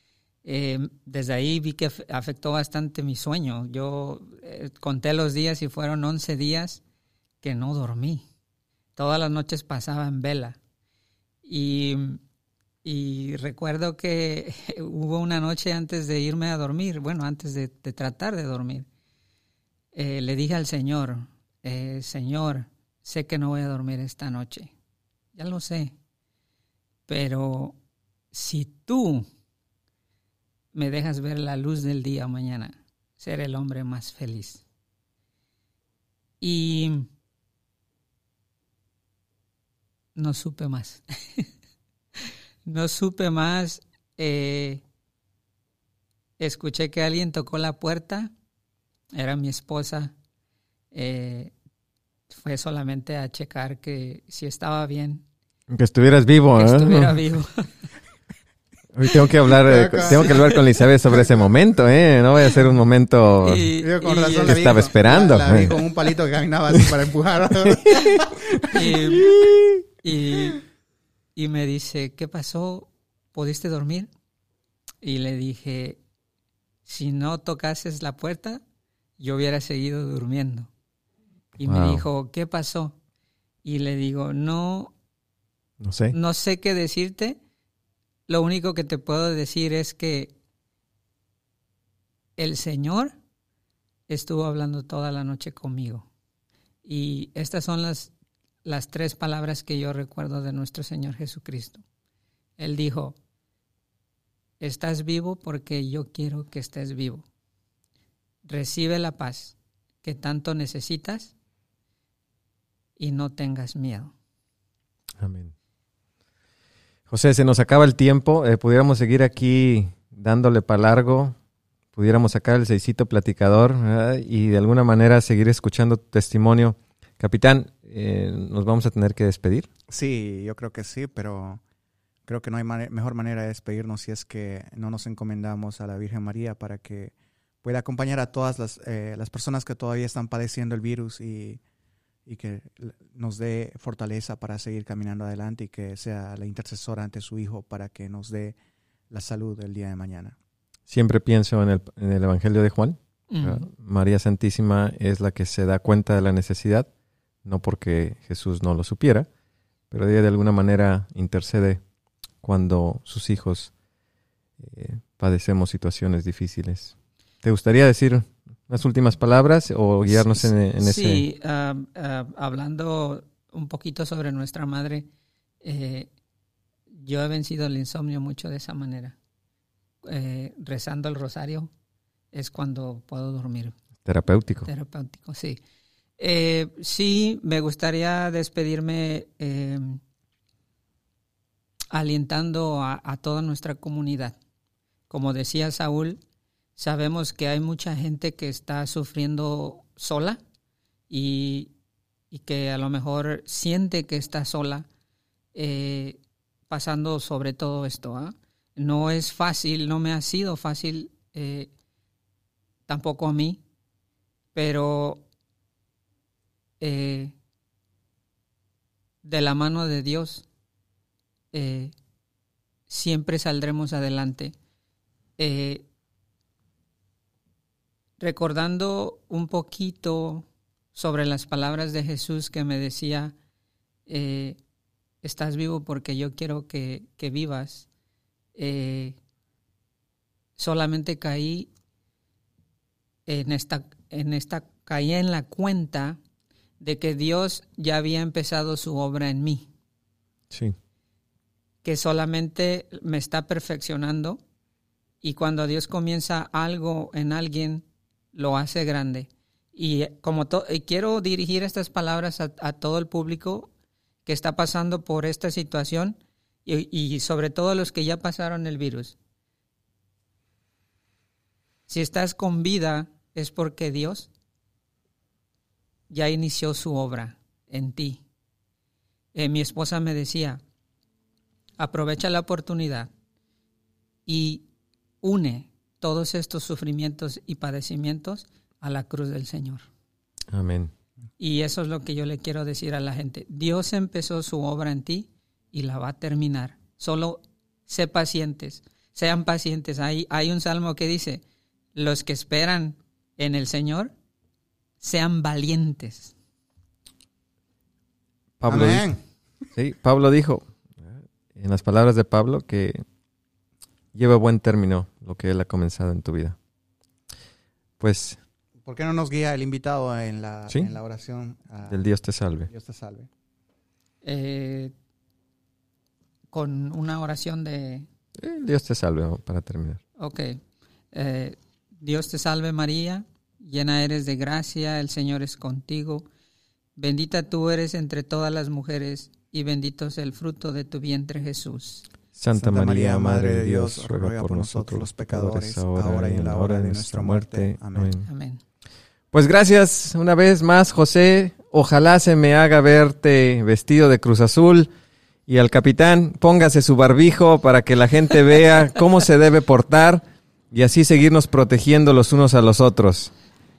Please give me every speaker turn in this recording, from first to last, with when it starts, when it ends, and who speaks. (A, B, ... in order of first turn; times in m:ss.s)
0:00.4-0:06.8 A
0:07.4-0:08.2 A
0:09.0-0:10.6 A
0:11.4-0:12.2 A
0:12.8-0:18.9 A
0:19.9-0:24.7 A
0:25.3-0:25.9 A
0:27.1-0:27.8 A
0:28.3-0:29.2 A
0:30.7-0:34.6 A
0:36.4-0:37.1 A
0:40.1-0:41.5 A
0:42.6-0:44.8 A
0:46.4-0:48.3 A
0:49.1-0:50.1 A
0:50.9-0:51.5 A
0:52.3-0:55.2 A
0:55.7-0:57.2 B
0:56.5-0:57.7 A
0:58.9-1:03.7 B
0:59.5-1:00.6 C
1:03.4-1:04.5 A
1:03.8-1:08.7 C
1:04.4-1:05.7 B
1:07.7-1:09.8 B
1:08.7-1:09.3 A
1:10.0-1:10.6 A
1:11.4-1:14.1 A
1:15.0-1:16.0 A
1:16.8-1:18.6 A
1:19.2-1:20.7 A
1:21.6-1:23.0 A
1:21.6-1:22.0 B
1:23.6-1:24.9 A
1:25.8-1:26.2 B
1:26.1-1:27.4 A
1:28.3-1:30.3 A
1:32.4-1:33.1 A
1:34.1-1:36.1 A
1:36.8-1:38.1 A
1:38.6-1:41.8 A
1:42.6-1:43.2 A
1:44.6-1:47.2 A
1:48.4-1:51.3 A
1:53.0-1:54.1 A
1:55.2-1:55.5 B
1:57.1-2:01.4 B
2:01.9-2:09.7 B
2:09.9-2:11.6 C
2:12.3-2:21.6 C
2:22.2-2:28.6 C
2:29.1-2:30.4 C
2:30.9-2:36.9 B
2:33.3-2:33.7 A
2:37.4-2:39.3 B
2:39.9-2:41.8 B
2:42.4-2:43.7 B
2:44.6-2:51.2 B
2:50.1-2:55.1 A
2:55.6-2:56.1 A
2:56.9-2:59.1 A
3:00.0-3:01.7 A
3:02.3-3:03.7 A
3:04.0-3:04.7 B
3:04.6-3:05.6 A
3:06.2-3:10.0 A
3:11.9-3:14.4 A
3:15.1-3:16.2 A
3:16.8-3:20.4 A
3:21.1-3:21.7 A
3:22.3-3:24.9 A
3:25.5-3:26.2 A
3:26.7-3:31.7 A
3:32.9-3:33.6 A
3:34.5-3:35.2 A
3:36.8-3:37.3 A
3:39.2-3:40.4 A
3:41.5-3:41.9 A
3:42.9-3:44.6 A
3:45.4-3:45.8 A
3:48.2-3:53.3 A
3:54.1-3:54.6 A
3:55.2-3:57.9 A
3:58.6-3:59.2 A
4:00.6-4:01.7 A
4:03.2-4:06.2 A
4:06.8-4:09.7 A
4:10.5-4:10.8 B
4:11.8-4:14.4 A
4:15.2-4:23.7 A
4:24.2-4:29.2 A
4:31.9-4:34.3 A
4:36.1-4:38.2 A
4:39.3-4:40.6 A
4:41.8-4:43.1 A
4:44.2-4:44.6 A
4:45.2-4:49.9 A
4:50.5-4:50.9 B
4:51.4-5:01.4 A
5:01.9-5:04.1 A
5:05.0-5:06.3 A
5:08.6-5:09.1 B
5:08.7-5:09.2 C
5:09.7-5:13.0 B
5:14.1-5:16.6 B
5:18.0-5:18.4 B
5:18.8-5:22.0 C
5:21.9-5:22.7 B
5:22.6-5:23.3 C
5:24.2-5:24.9 A
5:26.5-5:28.1 A
5:28.4-5:30.0 B
5:30.2-5:30.6 A
5:31.1-5:36.3 A
5:37.0-5:42.0 A
5:42.3-5:48.3 B
5:42.5-5:48.1 C
5:48.2-5:48.6 A
5:49.3-5:54.9 B
5:55.5-6:03.3 B